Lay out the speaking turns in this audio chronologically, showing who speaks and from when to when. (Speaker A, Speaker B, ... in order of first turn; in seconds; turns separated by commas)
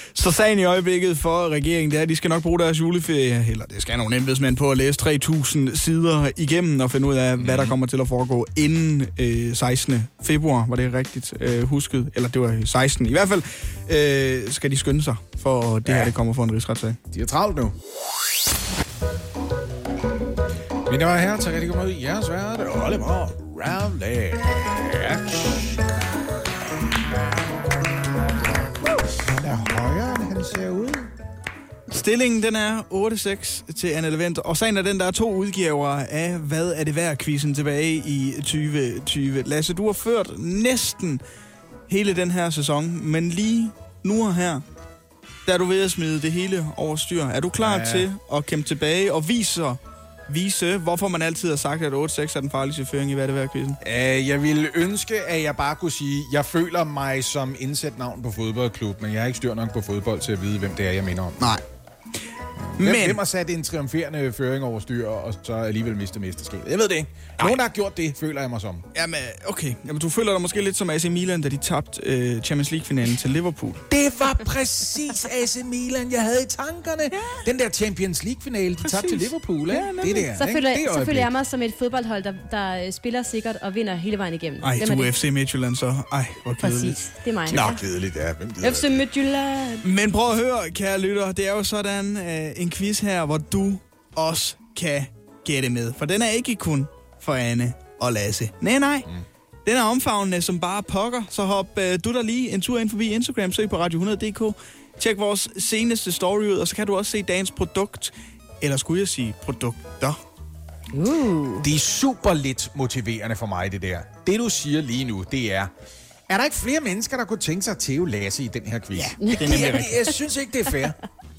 Speaker A: 0.2-17.0, Speaker B: 7.4-7.7, Speaker B: 15.8-16.1, Speaker B: 17.1-17.8, Speaker B: 20.9-25.8, Speaker B: 28.8-31.1, Speaker A: 31.9-41.2, Speaker A: 41.9-44.6, Speaker A: 45.5-53.8, Speaker B: 47.6-48.1, Speaker B: 53.8-61.5, Speaker B: 62.8-68.8, Speaker A: 62.8-63.2, Speaker A: 69.0-73.8, Speaker B: 73.9-81.3, Speaker A: 78.9-80.3, Speaker C: 80.3-85.1, Speaker A: 84.6-87.7, Speaker C: 86.6-87.7, Speaker B: 87.5-89.0, Speaker C: 88.6-89.8, Speaker A: 89.8-99.1, Speaker A: 99.7-110.2, Speaker C: 110.9-111.7, Speaker B: 111.6-115.7, Speaker B: 116.3-121.0, Speaker A: 119.0-120.0, Speaker C: 119.2-119.6